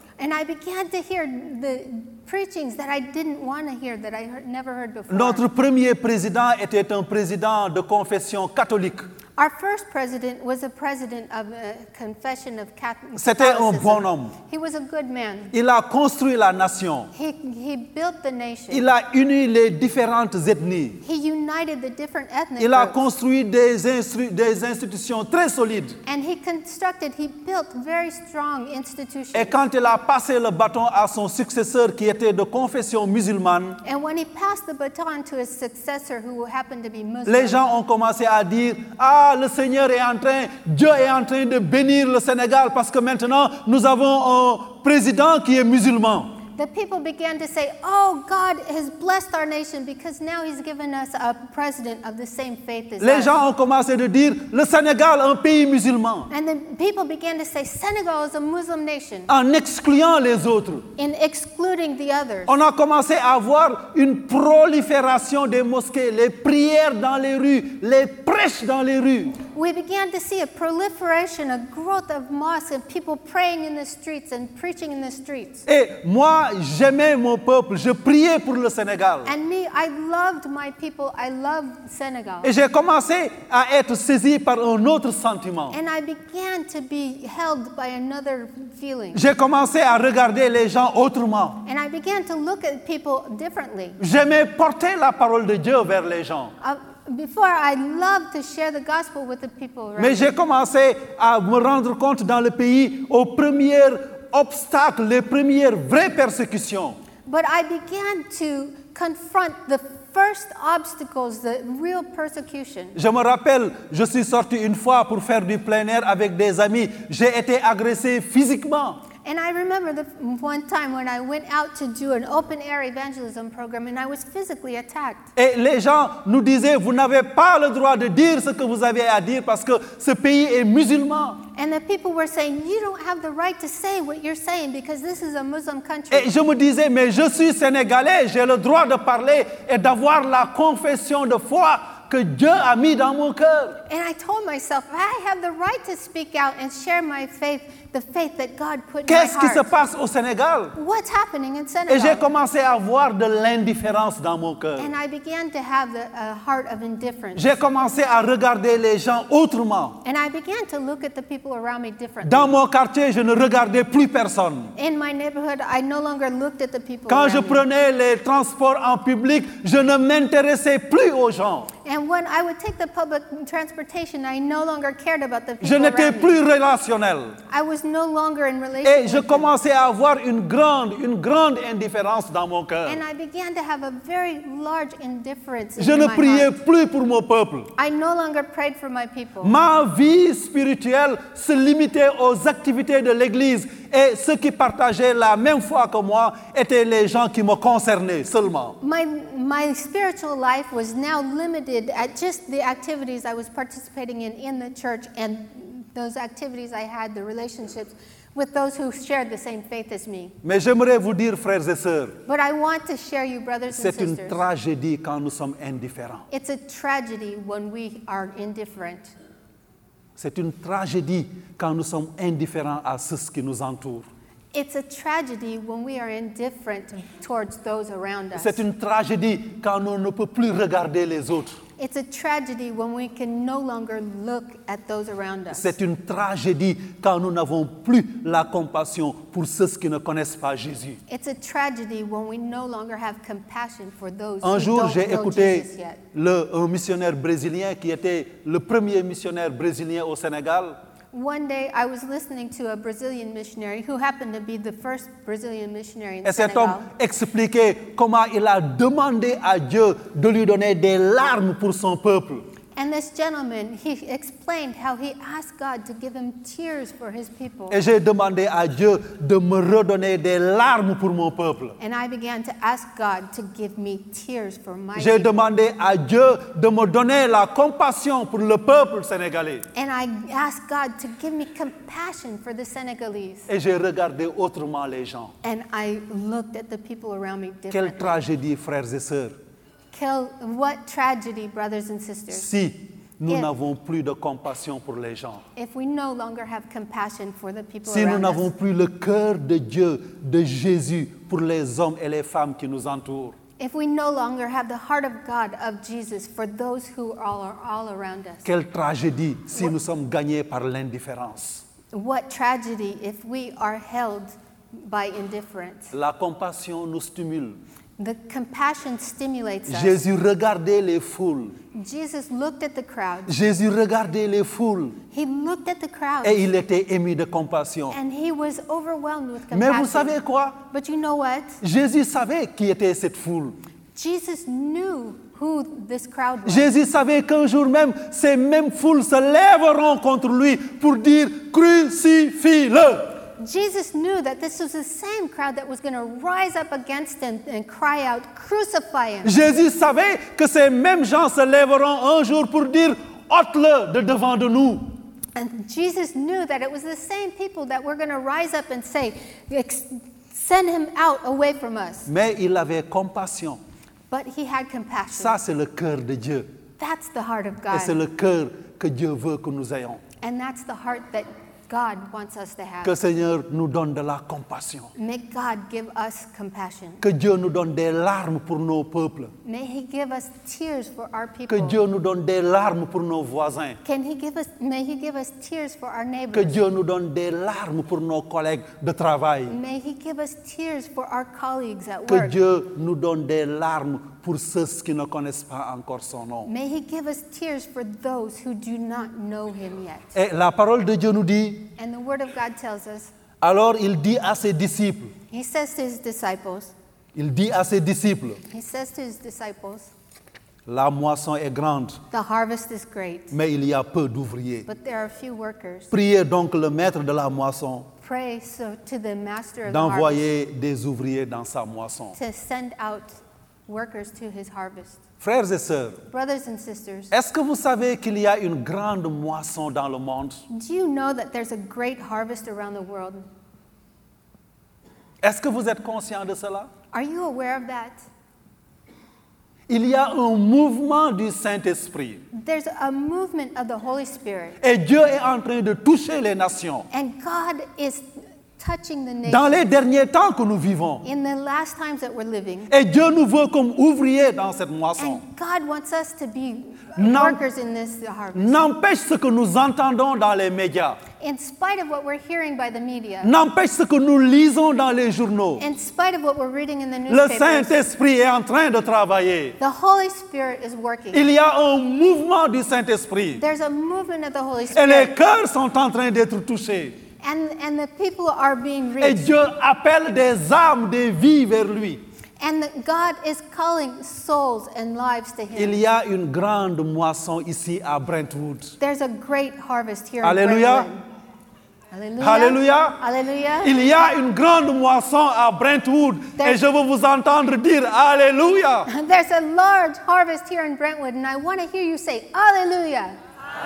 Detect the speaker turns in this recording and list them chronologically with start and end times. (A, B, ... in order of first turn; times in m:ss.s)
0:00.2-0:05.4 A
0:05.1-0:09.1 B
0:09.4-0:15.5 A
0:13.2-0:14.3 B
0:15.5-0:17.1 B
0:17.1-0:18.9 A
0:18.7-0:21.0 B
0:21.0-0:23.0 A
0:22.6-0:26.0 B
0:26.1-0:29.6 A
0:29.3-0:33.8 B
0:33.8-0:37.7 A
0:37.3-0:46.4 B
0:46.5-0:53.4 A
0:53.0-0:56.3 B
0:56.3-0:59.3 A
0:59.3-1:00.9 B
1:01.0-1:02.5 A
1:02.5-1:09.4 B
1:09.4-1:15.6 A
1:15.7-1:19.3 B
1:19.2-1:22.5 A
1:22.4-1:25.8 B
1:25.7-1:29.2 A
1:29.1-1:31.6 B
1:31.6-1:34.0 A
1:34.0-1:36.5 B
1:36.6-1:40.4 A
1:40.0-1:47.0 B
1:47.3-1:53.0 A
1:53.0-1:59.0 B
1:59.2-2:05.3 A
2:05.4-2:11.4 B
2:11.5-2:16.3 A
2:16.1-2:23.8 B
2:23.9-2:29.7 A
2:29.1-2:30.8 B
2:30.8-2:32.3 A
2:31.9-2:34.9 B
2:34.8-2:37.6 A
2:37.4-2:40.0 B
2:40.0-2:42.6 A
2:42.2-2:44.7 B
2:44.8-2:47.6 A
2:47.1-2:51.7 B
2:51.8-2:56.4 A
2:55.6-2:57.4 B
2:57.5-2:59.5 A
2:58.8-3:03.0 B
3:02.9-3:06.6 A
3:05.8-3:07.7 B
3:07.8-3:09.6 A
3:09.4-3:18.8 B
3:18.8-3:30.4 A
3:30.4-3:32.2 B
3:32.3-3:34.4 A
3:33.7-3:36.3 B
3:36.3-3:39.1 A
3:40.2-3:44.1 B
3:44.5-3:48.6 A
3:48.4-3:51.6 B
3:51.8-3:55.7 A
3:55.5-4:01.0 B
4:01.1-4:06.0 A
4:04.4-4:10.8 B
4:11.1-4:16.9 A
4:16.2-4:22.5 B
4:22.8-4:27.8 A
4:27.7-4:31.8 B
4:31.8-4:35.5 A
4:35.0-4:39.7 B
4:39.7-4:43.5 A
4:43.5-4:45.3 B
4:45.4-4:48.2 A
4:47.7-4:49.4 B
4:49.9-4:52.5 A
4:52.3-4:55.4 B
4:55.6-4:58.5 A
4:57.9-5:03.4 B
5:03.6-5:08.5 A
5:08.4-5:11.6 B
5:11.9-5:15.9 A
5:15.9-5:17.6 B
5:18.0-5:20.0 A
5:19.7-5:21.6 B
5:21.7-5:23.3 A
5:23.3-5:25.0 B
5:25.1-5:26.4 A
5:26.2-5:28.0 B
5:27.9-5:30.2 A
5:29.5-5:30.6 B
5:30.7-5:31.6 A
5:31.6-5:33.6 B
5:34.0-5:36.7 A
5:36.5-5:43.2 B
5:43.4-5:49.3 A
5:49.2-5:54.9 B
5:55.4-6:02.1 A
6:02.1-6:03.6 B
6:04.1-6:05.4 A
6:05.1-6:06.5 B
6:06.8-6:08.0 A
6:07.7-6:10.0 B
6:10.2-6:12.9 A
6:12.8-6:14.9 B
6:15.0-6:17.0 A
6:17.0-6:19.3 B
6:19.4-6:21.8 A
6:21.5-6:23.8 B
6:23.8-6:26.6 A
6:26.3-6:29.6 B
6:29.5-6:32.3 A
6:32.1-6:36.5 B
6:36.5-6:40.1 A
6:40.2-6:41.7 B
6:41.8-6:43.1 A
6:43.4-6:45.1 B
6:45.3-6:46.7 A
6:47.2-6:48.4 B
6:48.5-6:49.9 A
6:50.7-6:52.0 B
6:52.1-6:53.3 A
6:53.3-6:54.7 B
6:54.7-6:55.9 A
6:55.9-6:57.9 B
6:58.0-7:00.2 A
6:59.7-7:02.2 B
7:02.2-7:03.2 A
7:03.7-7:05.0 A
7:05.2-7:06.0 B
7:06.1-7:07.1 A
7:07.1-7:10.4 B
7:10.5-7:13.2 A
7:15.2-7:16.7 B
7:16.9-7:18.0 A
7:19.7-7:22.2 B
7:22.3-7:24.6 A
7:24.6-7:26.9 B
7:26.9-7:28.0 A
7:28.6-7:29.6 A
7:29.3-7:31.0 B
7:31.0-7:32.7 A
7:32.7-7:35.2 B
7:35.0-7:38.6 A
7:37.0-7:37.4 B
7:38.3-7:41.0 B
7:41.2-7:43.3 A
7:43.2-7:45.6 B
7:45.6-7:47.8 A
7:47.1-7:49.6 B
7:49.6-7:51.3 A
7:51.1-7:53.4 B
7:53.4-7:55.1 A
7:54.7-7:57.0 B
7:57.2-7:59.3 A
7:59.0-8:02.0 B
8:02.4-8:05.8 A
8:05.6-8:08.8 B
8:08.8-8:11.0 A
8:10.2-8:10.9 B
8:11.9-8:13.8 A
8:12.2-8:13.0 B
8:13.6-8:18.9 B
8:18.9-8:23.2 A